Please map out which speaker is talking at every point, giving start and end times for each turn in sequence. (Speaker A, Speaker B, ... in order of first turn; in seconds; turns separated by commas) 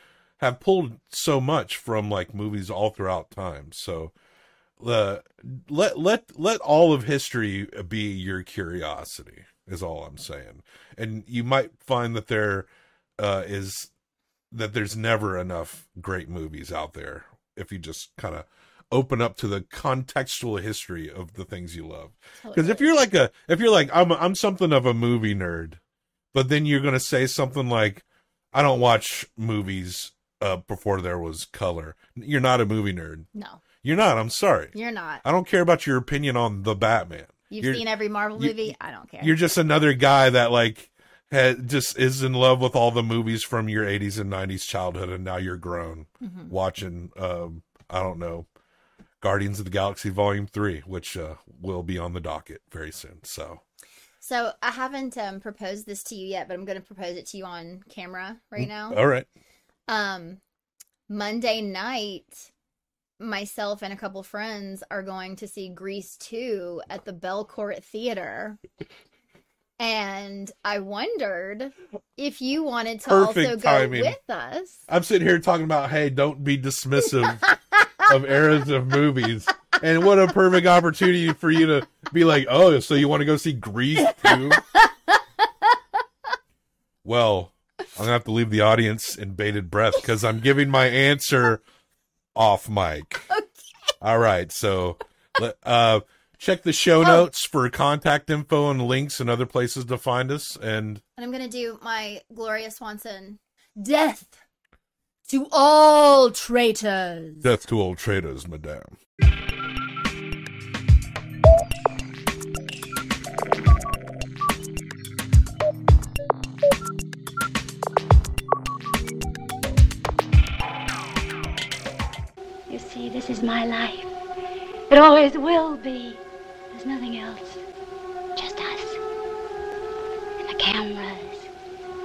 Speaker A: 0.4-4.1, Speaker A: 4.8-13.9, Speaker A: 14.5-25.8, Speaker B: 22.4-23.0, Speaker A: 26.3-33.3, Speaker B: 33.3-33.6, Speaker A: 33.8-37.8, Speaker B: 34.7-35.2, Speaker B: 37.5-39.4, Speaker A: 38.4-48.5, Speaker B: 46.2-46.5, Speaker A: 49.2-53.6, Speaker B: 54.2-59.0, Speaker A: 58.6-59.3, Speaker B: 59.9-60.4, Speaker B: 61.1-62.5, Speaker B: 63.2-68.6, Speaker B: 69.8-74.9, Speaker A: 73.1-74.2, Speaker A: 74.9-84.6, Speaker B: 77.5-77.9, Speaker B: 84.0-85.8, Speaker A: 87.0-91.6, Speaker A: 92.3-93.3, Speaker A: 94.0-101.0, Speaker B: 101.2-104.4, Speaker B: 105.3-107.5, Speaker A: 107.4-108.9, Speaker C: 122.7-124.1, Speaker C: 124.9-127.6, Speaker C: 128.3-129.0, Speaker C: 130.4-131.5